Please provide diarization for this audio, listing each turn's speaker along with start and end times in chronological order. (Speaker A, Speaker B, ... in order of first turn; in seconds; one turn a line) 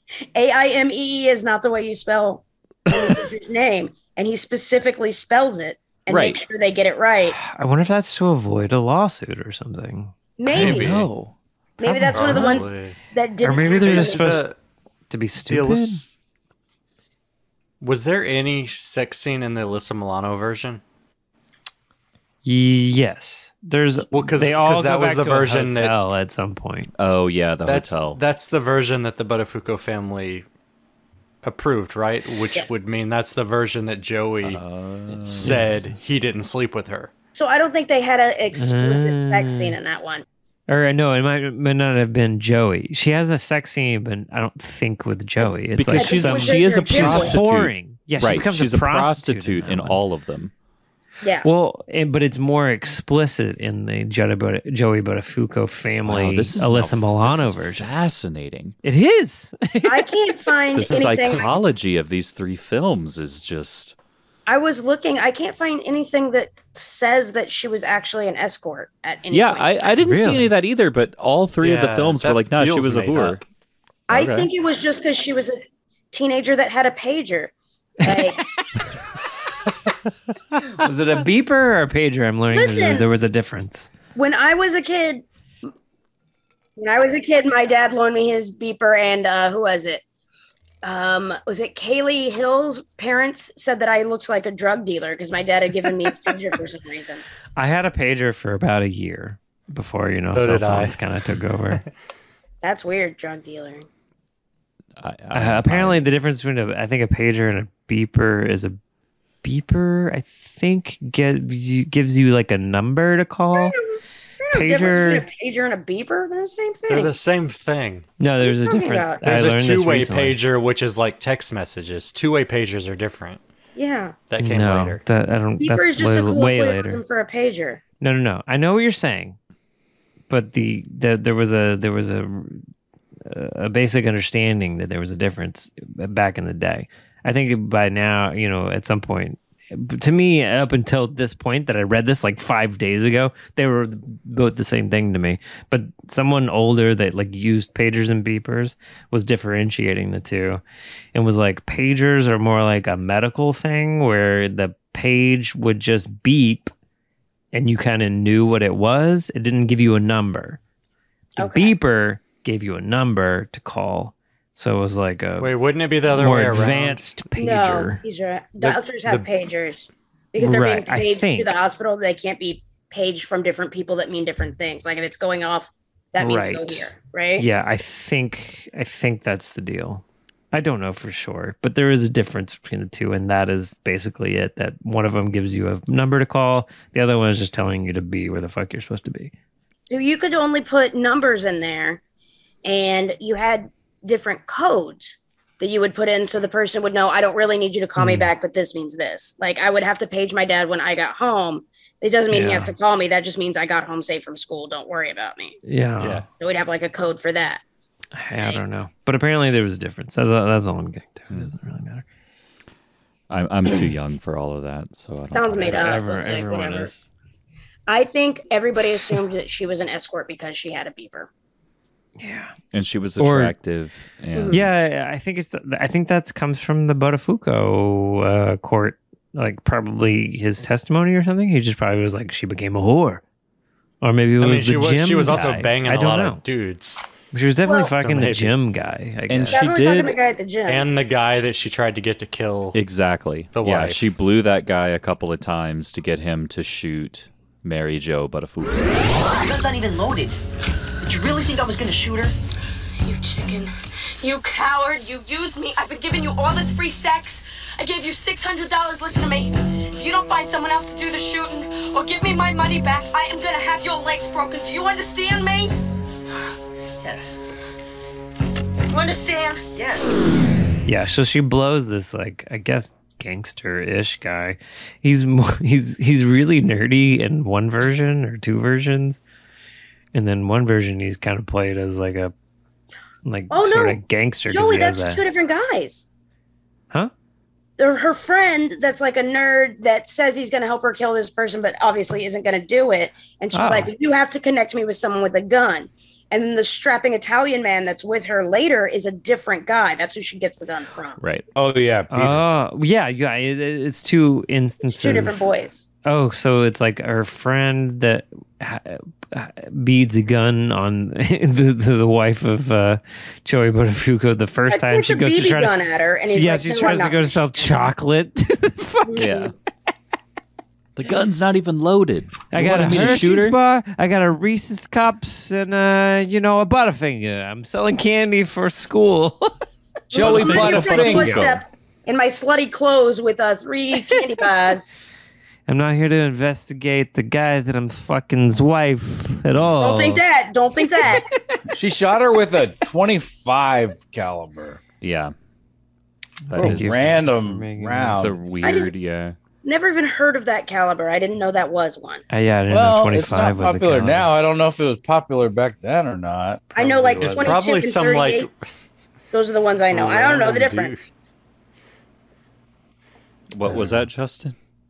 Speaker A: 0.3-7.4
Speaker B: 6.1-6.4
Speaker C: 7.4-11.3
Speaker A: 10.4-11.0
Speaker D: 10.5-11.1
Speaker B: 10.6-11.3
Speaker A: 11.8-14.4
Speaker C: 11.8-12.7
Speaker D: 12.1-14.6
Speaker C: 13.4-14.5
Speaker C: 15.1-16.1
Speaker D: 15.5-16.1
Speaker D: 17.8-20.8
Speaker C: 22.4-26.9
Speaker D: 24.1-25.9
Speaker B: 27.0-28.2
Speaker D: 27.7-30.5
Speaker D: 31.4-34.6
Speaker A: 32.5-32.9
Speaker B: 34.4-35.7
Speaker C: 35.3-35.9
Speaker D: 35.4-37.1
Speaker A: 37.4-40.2
Speaker C: 38.6-39.8
Speaker C: 40.7-50.0
Speaker B: 45.8-50.5
Speaker A: 46.0-47.4
Speaker A: 51.2-51.5
Speaker C: 51.4-57.9
Speaker B: 56.1-58.8
Speaker C: 58.8-60.1
Speaker A: 59.8-61.5
Speaker B: 60.7-64.0
Speaker A: 64.5-69.9
Speaker B: 69.3-73.4
Speaker C: 70.0-70.5
Speaker D: 71.6-73.4
Speaker A: 74.1-78.5
Speaker B: 74.1-74.5
Speaker C: 78.1-78.5
Speaker C: 80.7-83.9
Speaker A: 82.5-83.1
Speaker A: 84.2-85.2
Speaker A: 86.8-90.0
Speaker A: 90.8-97.2
Speaker C: 97.6-101.8
Speaker D: 100.3-101.0
Speaker A: 102.6-103.9
Speaker B: 105.0-106.1
Speaker C: 105.3-108.8
Speaker C: 109.4-113.8
Speaker A: 113.5-117.2
Speaker C: 114.5-115.3
Speaker D: 116.9-118.1
Speaker C: 118.2-120.4
Speaker A: 118.5-119.2
Speaker D: 119.2-123.4
Speaker A: 123.8-124.2
Speaker D: 124.3-125.0
Speaker C: 124.4-127.0
Speaker A: 125.6-127.8
Speaker C: 128.0-129.4
Speaker C: 130.3-132.6
Speaker C: 133.2-150.6
Speaker C: 151.2-156.7
Speaker C: 157.5-160.6
Speaker A: 161.4-161.8
Speaker C: 161.4-165.5
Speaker D: 165.4-167.0
Speaker C: 166.1-168.0
Speaker A: 167.4-177.5
Speaker D: 168.6-169.2
Speaker C: 170.4-171.6
Speaker C: 176.2-189.3
Speaker A: 189.9-192.0
Speaker A: 192.7-205.6
Speaker C: 198.0-198.3
Speaker C: 202.3-202.7
Speaker C: 205.7-206.2
Speaker D: 206.0-206.3
Speaker A: 206.4-207.6
Speaker C: 208.2-212.1
Speaker B: 213.3-216.0
Speaker A: 215.3-216.9
Speaker C: 215.6-217.1
Speaker A: 217.9-221.3
Speaker C: 222.2-222.5
Speaker B: 222.7-224.7
Speaker C: 223.2-223.5
Speaker A: 224.3-224.6
Speaker C: 224.5-233.2
Speaker C: 234.0-236.4
Speaker D: 234.4-237.0
Speaker C: 237.3-239.6
Speaker D: 237.9-238.5
Speaker B: 239.3-240.2
Speaker A: 239.5-240.9
Speaker D: 240.7-242.8
Speaker B: 242.7-249.1
Speaker D: 243.6-244.0
Speaker E: 249.2-250.4
Speaker E: 251.0-252.3
Speaker F: 253.0-265.7
Speaker F: 268.9-269.6
Speaker E: 269.7-270.2
Speaker C: 270.9-279.2
Speaker C: 280.1-282.3
Speaker C: 283.2-285.2
Speaker A: 283.5-286.1
Speaker A: 287.8-301.2
Speaker C: 293.5-293.9
Speaker B: 301.2-301.5
Speaker G: 301.6-302.4
Speaker C: 302.1-305.5
Speaker A: 304.9-305.9
Speaker C: 306.1-315.8
Speaker A: 314.7-317.9
Speaker C: 316.3-319.3
Speaker A: 319.1-319.5
Speaker B: 319.2-319.5
Speaker B: 321.0-323.6
Speaker C: 322.5-329.6
Speaker G: 322.6-323.4
Speaker G: 330.1-331.6
Speaker A: 330.1-334.9
Speaker B: 330.2-331.6
Speaker C: 335.7-340.2
Speaker A: 339.8-341.3
Speaker G: 341.7-344.8
Speaker B: 345.0-345.3
Speaker B: 346.5-347.2
Speaker C: 346.5-348.2
Speaker G: 346.6-348.4
Speaker B: 348.1-349.4
Speaker A: 348.6-348.9
Speaker A: 349.6-352.2
Speaker C: 352.3-354.3
Speaker G: 352.7-356.7
Speaker C: 356.7-357.6
Speaker A: 356.8-358.5
Speaker D: 357.2-358.6
Speaker A: 359.3-361.1
Speaker D: 359.9-361.1
Speaker B: 363.5-364.6